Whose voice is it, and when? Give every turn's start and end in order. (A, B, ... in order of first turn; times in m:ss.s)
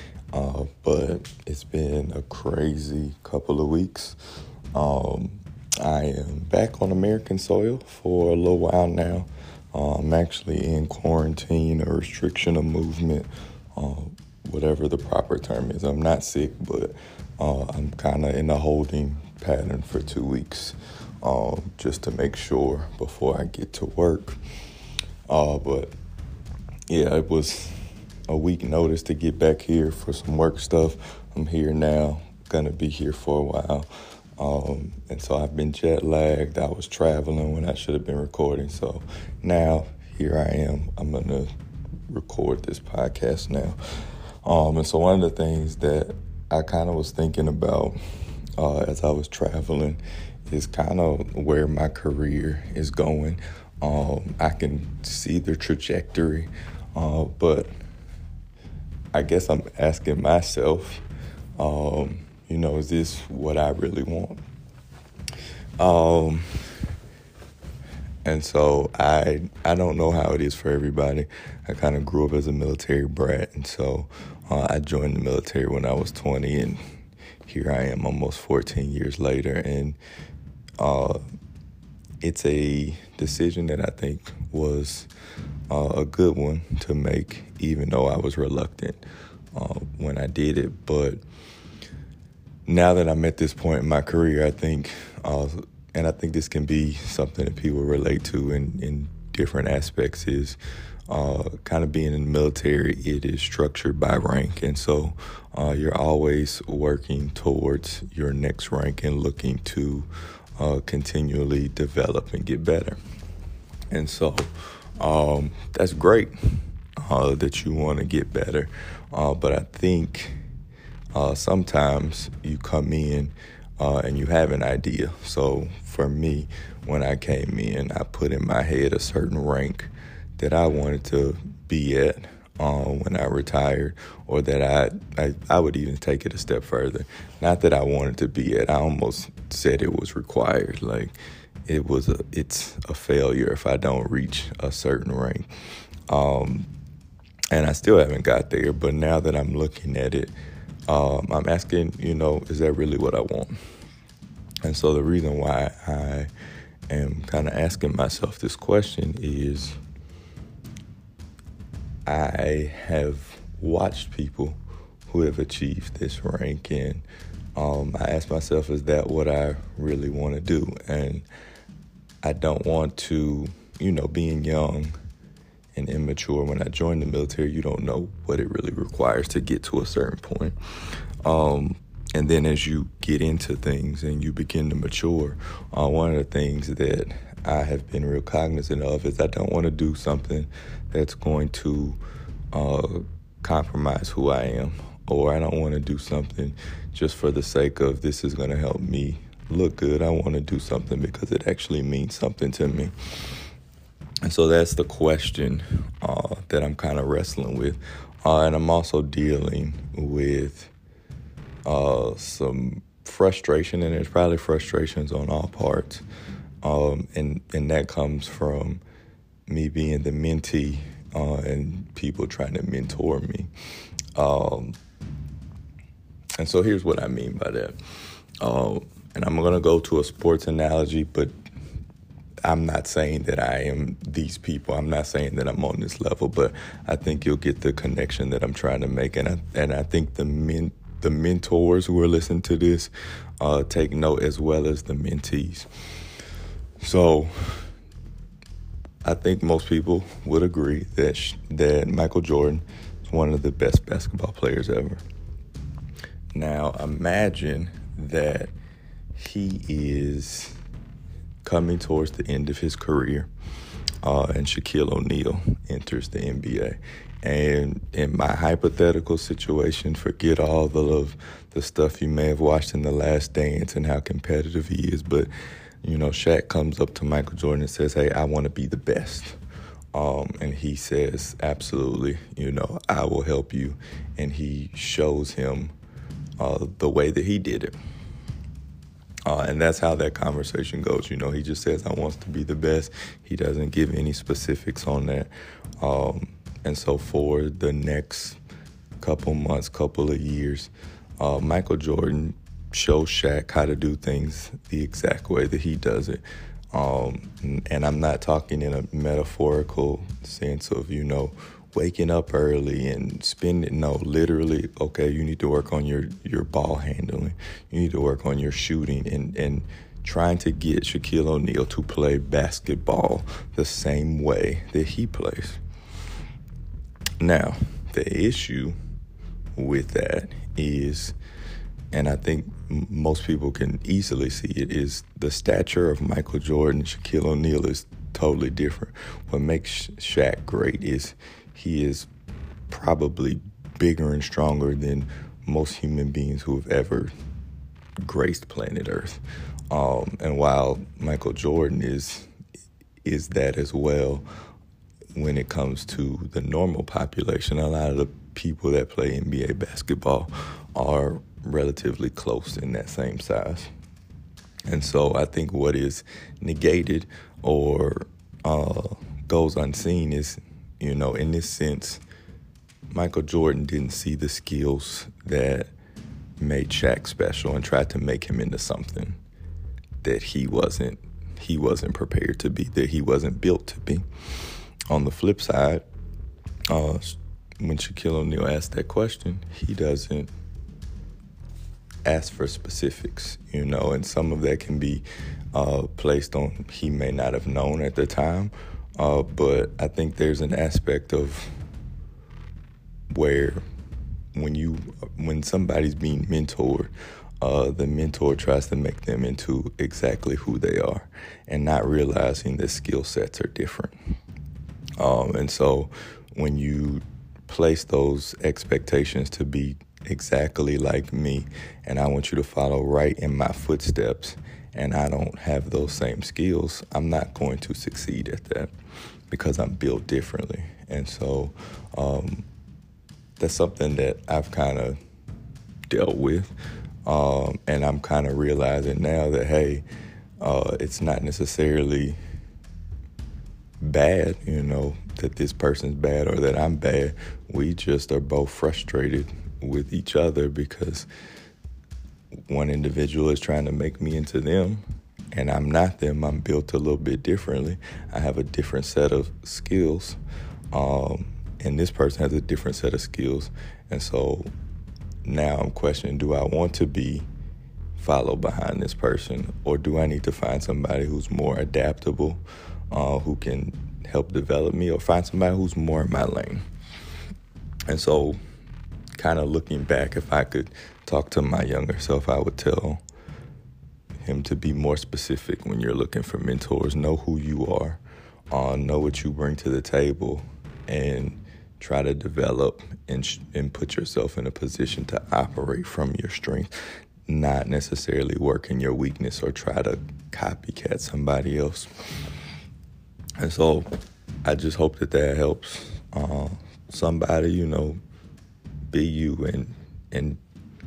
0:00.3-0:04.2 A
0:04.7-0:24.4 A
0:25.3-0:25.9 A
0:26.9-0:27.8 A
0:28.3-0:41.5 A
0:42.1-0:43.8 A
0:44.4-0:48.0 A
0:48.6-0:57.7 A
0:59.1-1:01.0 A
1:01.6-1:04.4 A
1:05.8-1:06.5 A
1:08.2-1:16.8 A
1:17.4-1:20.0 A
1:20.8-1:21.2 A
1:22.2-1:25.1 A
1:25.7-1:31.2 A
1:32.6-1:40.6 A
1:41.1-1:53.0 A
1:53.9-2:00.4 A
2:01.1-2:25.5 A
2:26.1-2:26.7 A
2:27.5-2:30.4 A
2:30.9-2:33.6 A
2:34.6-2:36.3 A
2:36.9-2:39.8 A
2:42.0-2:47.0 A
2:47.6-2:51.2 A
2:52.2-2:54.9 A
2:55.7-3:00.6 A
3:01.2-3:12.0 A
3:12.5-3:23.4 A
3:24.2-3:30.7 A
3:31.6-3:36.0 A
3:36.6-3:38.8 A
3:39.5-3:43.5 A
3:44.2-3:44.8 A
3:46.4-3:47.8 A
3:48.4-3:51.3 A
3:52.4-4:05.7 A
4:06.8-4:07.7 A
4:09.0-4:15.0 A
4:16.3-4:18.5 A
4:19.1-4:20.6 A
4:21.4-4:23.3 A
4:24.0-4:35.3 A
4:35.8-4:39.4 A
4:39.9-4:45.7 A
4:46.4-4:47.8 A
4:49.2-4:58.4 A
4:59.0-5:06.2 A
5:06.7-5:25.6 A
5:27.2-5:28.8 A
5:29.5-5:31.2 A
5:31.9-5:42.1 A
5:42.7-5:47.1 A
5:48.0-5:52.3 A
5:53.0-5:54.2 A
5:55.1-6:03.7 A
6:04.7-6:12.0 A
6:12.9-6:15.7 A
6:16.4-6:19.2 A
6:20.0-6:25.8 A
6:26.7-6:30.3 A
6:32.0-6:41.5 A
6:43.1-6:43.6 A
6:44.3-6:54.0 A
6:55.0-7:08.7 A
7:09.3-7:12.4 A
7:13.4-7:15.0 A
7:15.9-7:19.8 A
7:20.4-7:22.2 A
7:23.8-7:31.1 A
7:32.5-7:40.2 A
7:40.7-7:44.5 A
7:45.2-7:47.3 A
7:48.0-7:56.6 A
7:57.9-7:58.4 A
7:59.2-8:03.0 A
8:04.2-8:16.7 A
8:17.3-8:21.9 A
8:23.4-8:23.9 A
8:24.4-8:28.0 A
8:28.9-8:30.4 A